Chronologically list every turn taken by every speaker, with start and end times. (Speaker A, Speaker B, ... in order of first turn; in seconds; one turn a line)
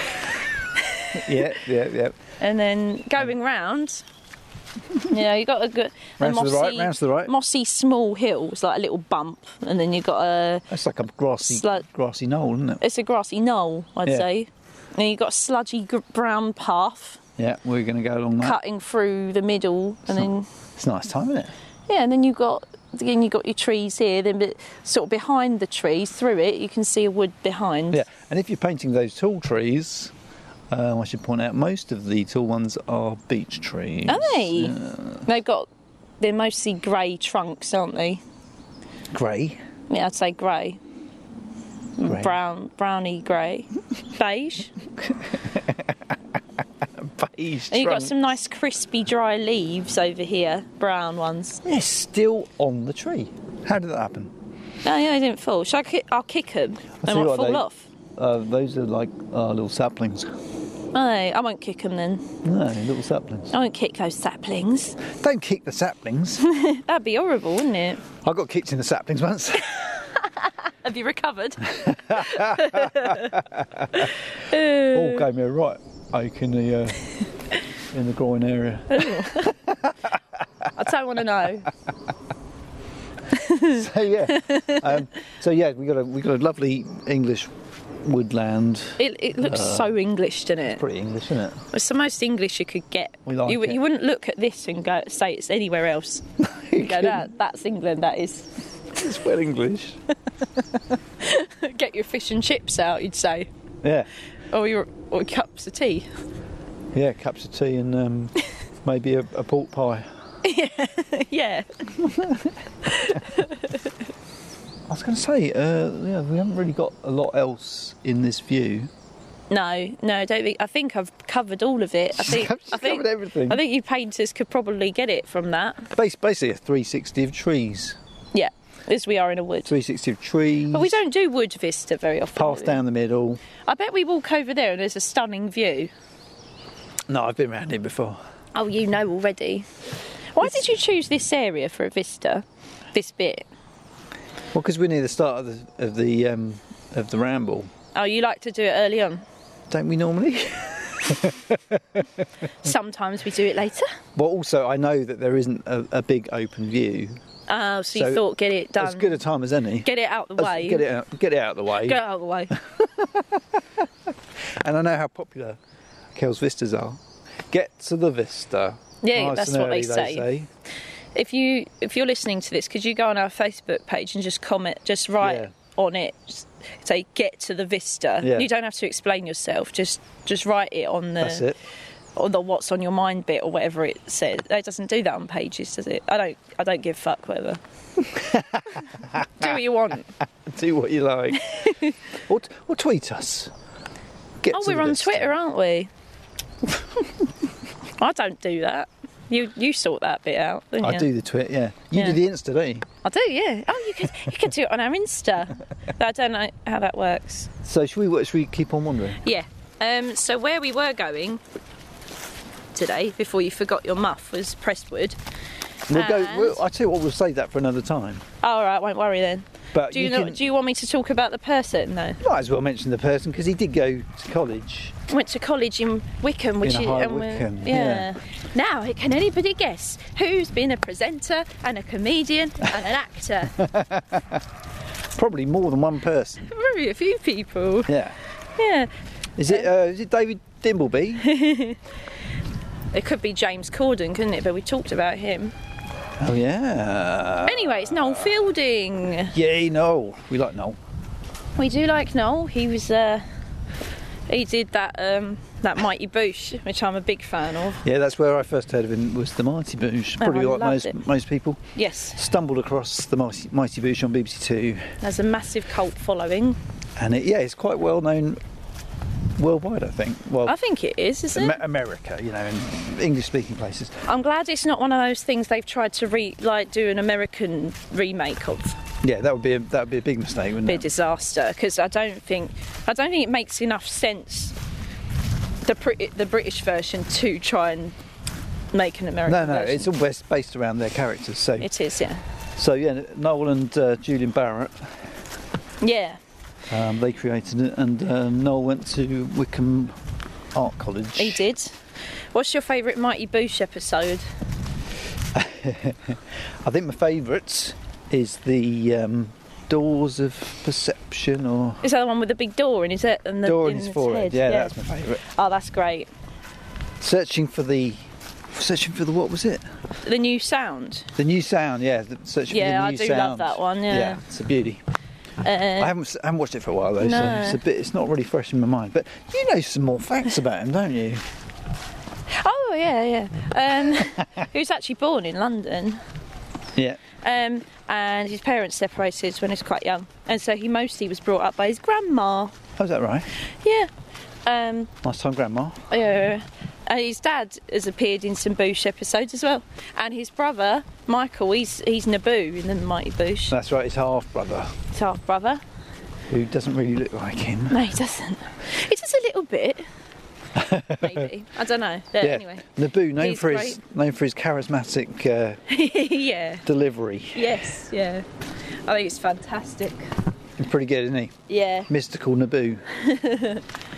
Speaker A: 0.8-1.5
Speaker B: 1.1-2.2
Speaker A: 2.4-4.0
Speaker A: 5.0-10.7
Speaker B: 6.2-7.3
Speaker B: 10.7-12.8
Speaker A: 11.4-11.8
Speaker A: 12.8-17.2
Speaker B: 17.4-18.6
Speaker A: 18.4-20.5
Speaker B: 20.8-21.5
Speaker A: 21.9-28.0
Speaker B: 27.9-30.1
Speaker B: 30.7-35.2
Speaker A: 34.1-35.7
Speaker A: 36.2-38.2
Speaker B: 39.1-39.6
Speaker A: 39.9-40.8
Speaker A: 42.0-44.7
Speaker B: 42.0-42.3
Speaker B: 45.4-46.0
Speaker B: 46.8-48.1
Speaker A: 47.7-51.6
Speaker B: 51.6-54.3
Speaker A: 54.8-57.9
Speaker B: 57.0-60.2
Speaker A: 60.9-62.4
Speaker B: 62.4-63.5
Speaker A: 63.5-65.0
Speaker B: 65.0-66.5
Speaker A: 66.4-68.1
Speaker B: 68.2-69.8
Speaker A: 69.7-73.4
Speaker B: 71.8-74.1
Speaker A: 74.0-75.3
Speaker B: 74.8-77.1
Speaker B: 77.9-80.2
Speaker A: 78.9-79.5
Speaker A: 80.8-81.7
Speaker A: 83.3-84.9
Speaker B: 83.6-87.5
Speaker B: 88.0-89.9
Speaker A: 89.0-90.8
Speaker B: 90.7-91.6
Speaker A: 91.7-96.2
Speaker B: 93.2-93.8
Speaker B: 96.4-97.3
Speaker A: 96.8-98.5
Speaker B: 98.9-100.0
Speaker A: 101.2-103.5
Speaker B: 103.8-104.1
Speaker A: 104.5-106.1
Speaker B: 106.9-110.1
Speaker A: 110.4-112.1
Speaker B: 112.0-113.2
Speaker A: 112.8-113.9
Speaker B: 114.9-118.9
Speaker A: 119.5-125.9
Speaker B: 122.2-123.6
Speaker B: 125.9-128.0
Speaker A: 128.3-129.7
Speaker B: 129.7-131.0
Speaker A: 130.7-132.8
Speaker B: 132.4-133.4
Speaker A: 133.7-135.9
Speaker B: 137.1-138.2
Speaker A: 138.5-139.7
Speaker A: 140.3-143.5
Speaker B: 144.5-147.7
Speaker A: 147.9-149.2
Speaker B: 149.7-152.0
Speaker A: 152.6-153.9
Speaker B: 154.2-157.2
Speaker A: 157.5-159.2
Speaker B: 157.9-158.2
Speaker B: 158.8-162.0
Speaker A: 159.8-160.9
Speaker A: 161.7-162.6
Speaker B: 162.5-163.8
Speaker B: 164.6-165.6
Speaker B: 166.2-170.5
Speaker A: 169.0-170.3
Speaker A: 171.2-181.5
Speaker B: 175.2-175.5
Speaker B: 178.2-178.5
Speaker B: 181.2-181.6
Speaker A: 182.2-187.6
Speaker B: 188.0-189.6
Speaker A: 188.8-190.1
Speaker B: 190.4-191.7
Speaker A: 191.3-191.9
Speaker B: 192.2-193.5
Speaker B: 194.4-195.3
Speaker A: 194.5-195.9
Speaker A: 198.0-201.1
Speaker B: 200.8-202.9
Speaker A: 203.0-207.5
Speaker B: 207.6-209.2
Speaker A: 209.2-211.4
Speaker A: 212.7-215.2
Speaker A: 215.9-216.6
Speaker B: 215.9-218.2
Speaker A: 218.4-222.2
Speaker B: 219.7-220.4
Speaker B: 222.2-225.0
Speaker A: 225.1-233.7
Speaker B: 226.6-228.1
Speaker B: 233.6-234.4
Speaker B: 235.2-236.5
Speaker A: 236.5-237.9
Speaker B: 237.9-238.2
Speaker A: 238.6-238.9
Speaker B: 239.4-241.3
Speaker A: 241.2-241.8
Speaker A: 242.9-245.5
Speaker B: 246.2-248.3
Speaker A: 247.4-249.3
Speaker B: 249.3-250.8
Speaker A: 251.6-253.2
Speaker A: 254.3-257.8
Speaker B: 257.8-261.6
Speaker A: 260.2-261.0
Speaker A: 261.8-262.2
Speaker B: 262.1-265.0
Speaker A: 265.0-266.6
Speaker B: 267.0-268.4
Speaker B: 269.4-270.6
Speaker A: 270.4-271.6
Speaker B: 271.3-274.0
Speaker A: 274.1-278.8
Speaker B: 279.0-280.9
Speaker A: 280.6-284.6
Speaker A: 285.6-288.0
Speaker A: 288.7-289.9
Speaker B: 289.2-291.7
Speaker A: 291.6-292.2
Speaker B: 292.6-295.0
Speaker A: 295.8-296.2
Speaker B: 296.7-300.0
Speaker B: 300.5-301.4
Speaker A: 301.2-301.8
Speaker A: 302.3-304.2
Speaker B: 305.3-311.8
Speaker A: 311.8-316.1
Speaker B: 313.4-315.2
Speaker B: 317.0-319.6
Speaker A: 320.0-321.1
Speaker B: 321.2-324.8
Speaker A: 322.5-324.2
Speaker A: 325.4-325.9
Speaker B: 325.8-331.2
Speaker A: 327.0-327.6
Speaker A: 332.3-336.0
Speaker B: 336.8-337.0
Speaker A: 337.2-342.6
Speaker B: 342.8-343.3
Speaker A: 343.6-343.9
Speaker A: 344.5-344.9
Speaker B: 345.0-345.9
Speaker A: 345.9-353.6
Speaker B: 353.5-354.8
Speaker A: 354.9-355.6
Speaker B: 356.3-357.9
Speaker A: 357.7-359.9
Speaker B: 360.6-361.3
Speaker A: 360.9-362.6
Speaker B: 362.2-365.6
Speaker A: 363.2-363.8
Speaker A: 365.7-366.6
Speaker B: 366.6-367.6
Speaker A: 367.4-368.2
Speaker A: 368.9-370.1
Speaker B: 370.6-372.9
Speaker A: 371.5-371.9
Speaker A: 372.9-373.7